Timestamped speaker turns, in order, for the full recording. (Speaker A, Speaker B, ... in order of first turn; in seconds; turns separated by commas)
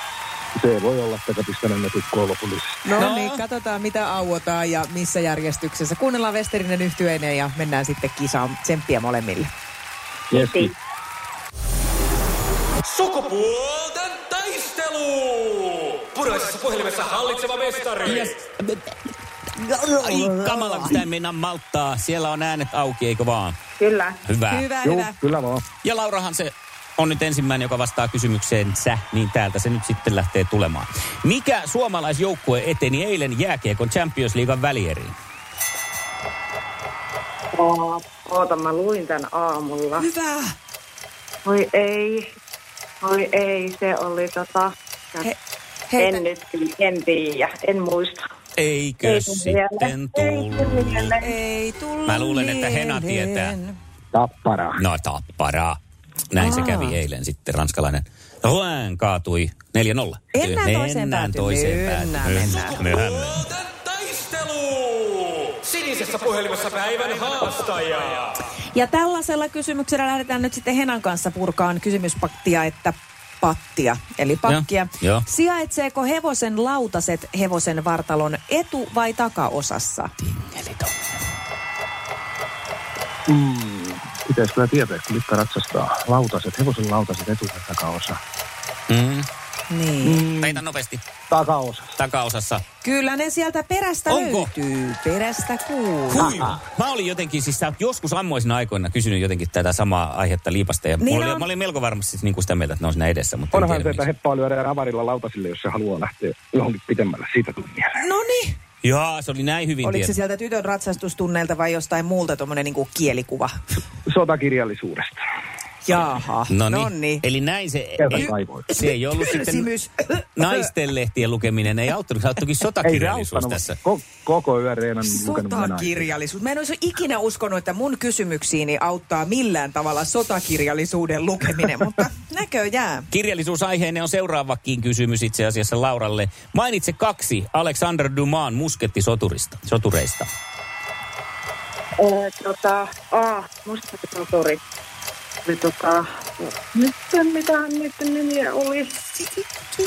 Speaker A: 0.6-2.8, Speaker B: 2.8-9.5, Speaker C: 3.0-3.4, Speaker A: 10.3-10.7, Speaker D: 10.3-10.7, Speaker E: 12.8-18.3, Speaker C: 18.0-18.8, Speaker B: 19.6-21.0, Speaker C: 19.9-23.6, Speaker D: 23.8-24.2, Speaker C: 24.2-24.7, Speaker B: 24.5-25.2, Speaker A: 24.8-25.6, Speaker C: 25.8-35.1, Speaker D: 37.5-40.1, Speaker B: 40.0-40.5, Speaker D: 41.4-42.3, Speaker D: 43.0-45.3, Speaker B: 45.9-46.2, Speaker D: 46.0-48.2, Speaker C: 48.6-51.1, Speaker D: 49.0-51.3, Speaker B: 51.2-53.8, Speaker C: 52.1-53.5, Speaker A: 54.1-54.8, Speaker C: 54.8-55.8, Speaker C: 56.3-63.5, Speaker B: 56.4-57.0, Speaker B: 60.3-62.8, Speaker E: 62.6-68.3, Speaker B: 68.7-80.1, Speaker C: 74.5-75.2, Speaker C: 80.2-81.1, Speaker A: 83.3-88.2, Speaker C: 88.9-89.3, Speaker B: 89.7-90.3, Speaker A: 90.0-90.6, Speaker C: 90.4-91.0, Speaker A: 91.3-91.9, Speaker C: 92.0-92.6, Speaker B: 92.8-96.4, Speaker C: 94.1-94.5, Speaker C: 96.1-104.0, Speaker B: 101.0-101.5, Speaker A: 103.5-108.0, Speaker B: 108.0-108.5, Speaker C: 108.8-110.1, Speaker B: 109.8-113.5, Speaker A: 114.1-115.2, Speaker B: 115.8-117.2, Speaker C: 116.5-119.7, Speaker A: 118.0-118.7, Speaker B: 118.1-120.6, Speaker C: 120.3-123.8, Speaker A: 122.8-126.1, Speaker B: 125.0-133.1, Speaker C: 133.1-140.3, Speaker D: 142.0-144.6, Speaker D: 145.4-149.0